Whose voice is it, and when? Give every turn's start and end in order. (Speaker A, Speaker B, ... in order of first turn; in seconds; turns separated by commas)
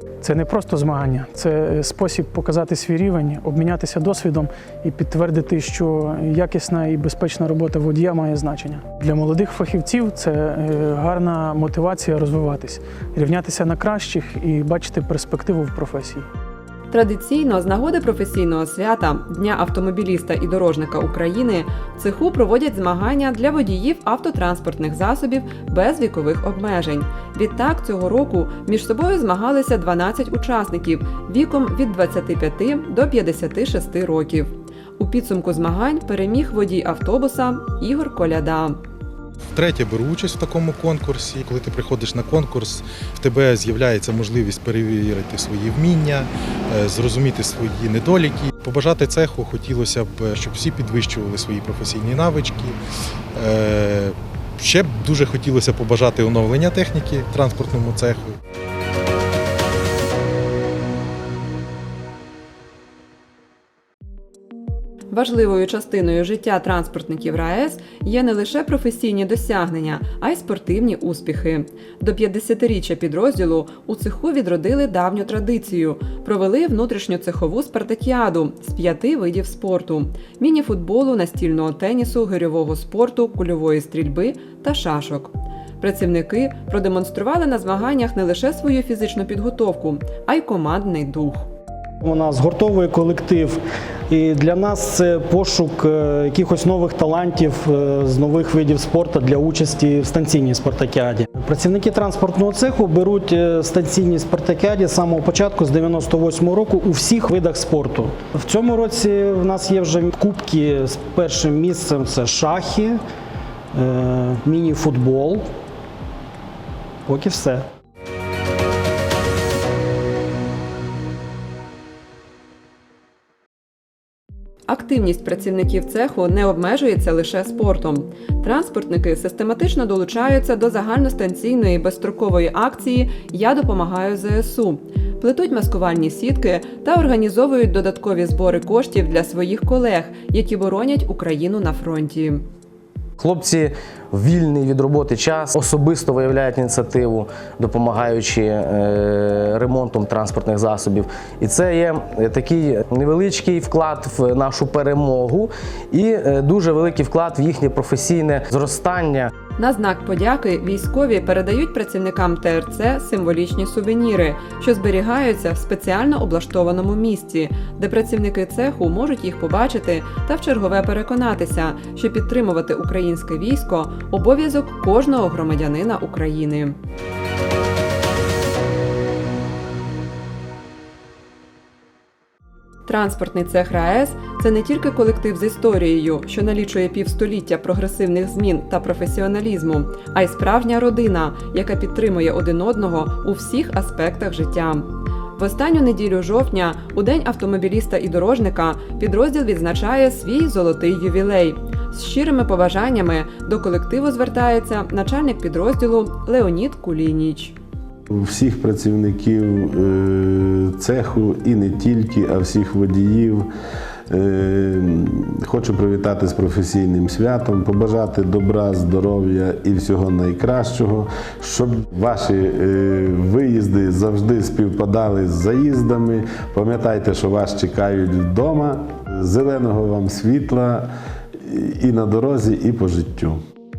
Speaker A: 0.2-16.2, Speaker B: 16.9-38.8, Speaker C: 39.5-52.8, Speaker C: 53.3-58.4, Speaker B: 65.1-91.5, Speaker D: 92.0-93.6, Speaker D: 94.1-113.0, Speaker D: 113.7-115.4, Speaker D: 117.1-117.6, Speaker B: 124.7-142.4, Speaker E: 143.2-159.3, Speaker B: 159.6-176.8, Speaker B: 182.8-207.6, Speaker F: 208.1-213.4, Speaker F: 214.1-230.9, Speaker F: 231.4-233.4